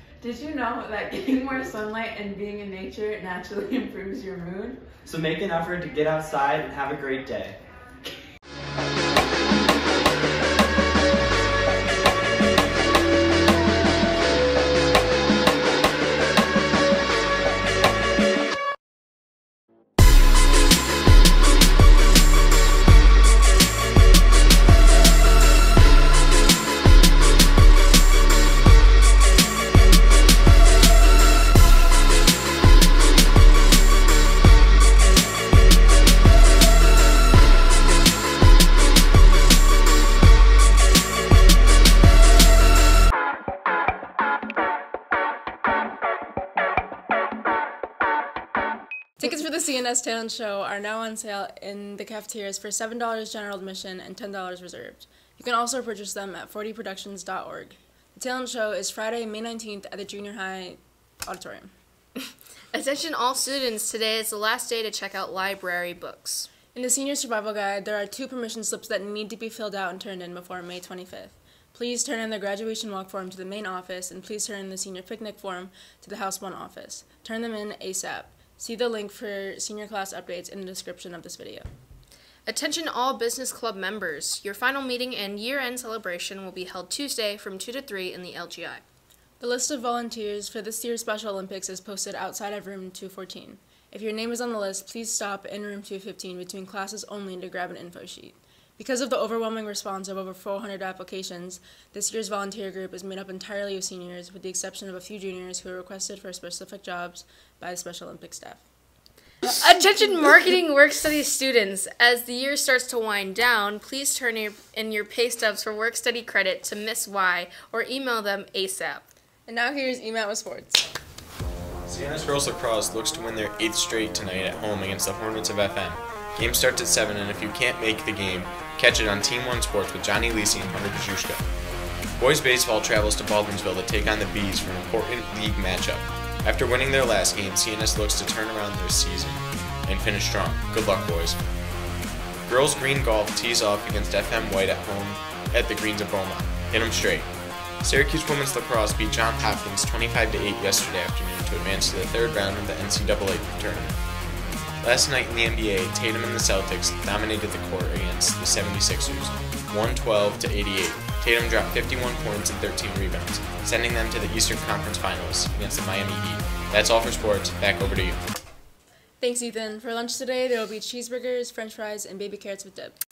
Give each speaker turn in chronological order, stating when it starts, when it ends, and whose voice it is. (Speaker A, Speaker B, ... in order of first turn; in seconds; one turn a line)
Speaker A: 0.2-4.9
Speaker B: 5.1-7.6
Speaker C: 6.8-7.1
Speaker D: 49.2-61.7
Speaker E: 62.2-66.5
Speaker D: 66.7-81.7
Speaker E: 82.5-88.8
Speaker D: 89.4-108.6
Speaker E: 109.4-119.1
Speaker D: 119.5-120.9
Speaker C: 121.9-131.4
Speaker C: 132.2-141.4
Speaker C: 142.5-147.3
Speaker C: 147.8-154.0
Speaker C: 154.8-168.2
Speaker D: 169.2-173.0